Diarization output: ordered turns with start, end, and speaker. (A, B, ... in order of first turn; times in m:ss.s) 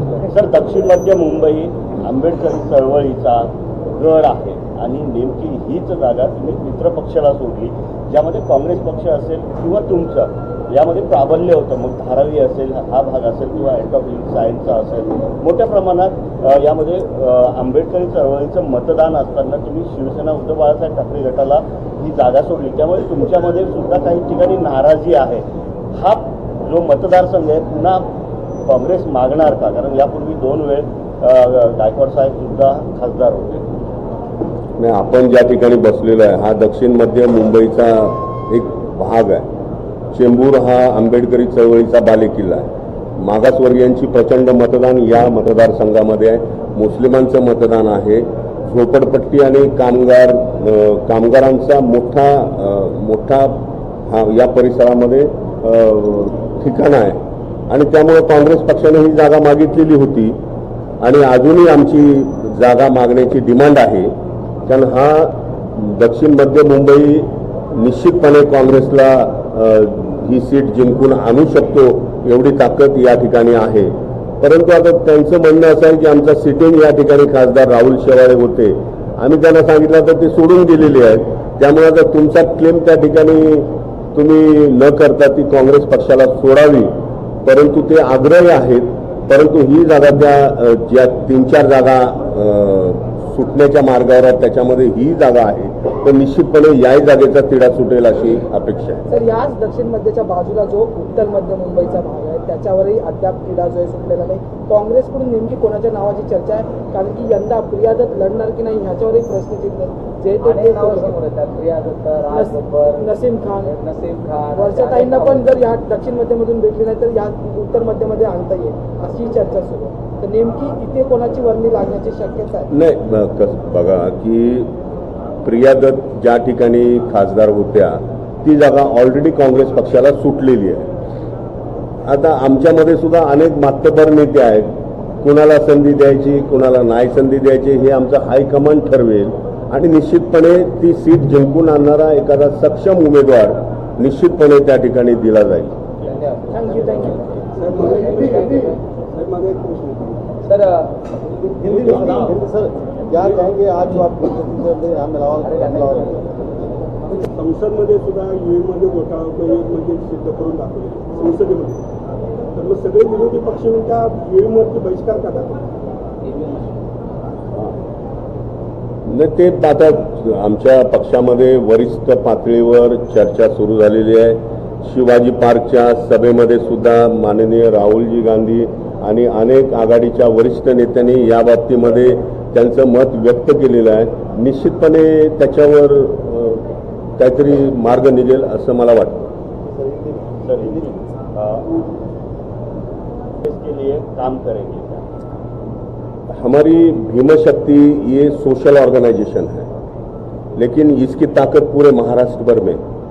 0:00.3-0:28.1 A
0:28.7-0:33.7 A
0:34.8-0:39.5 B
0:40.1-0:57.2 B
0:57.7-1:00.4 B
1:01.0-1:04.1 B
1:04.7-1:26.9 B
1:27.4-1:39.0 B
1:39.1-1:51.1 C
1:50.4-1:55.5 D
1:52.3-1:53.7 C
1:54.6-2:02.7 C
2:02.7-2:04.7 B
2:05.4-2:10.9 B
2:12.0-2:14.7 B
2:15.2-2:25.8 B
2:26.0-2:28.8 D
2:26.5-2:27.2 C
2:27.6-2:28.5 E
2:29.1-2:30.2 E
2:30.4-2:31.0 D
2:31.6-2:36.5 F
2:31.8-2:32.3 E
2:35.4-2:36.2 D
2:37.3-2:41.8 E
2:42.6-2:45.6 E
2:46.3-2:46.6 D
2:49.1-3:06.6 B
3:07.2-3:09.3 B
3:09.7-3:11.0 F
3:10.4-3:11.7 A
3:13.4-3:15.0 A
3:16.3-3:19.7 B
3:20.6-3:22.8 B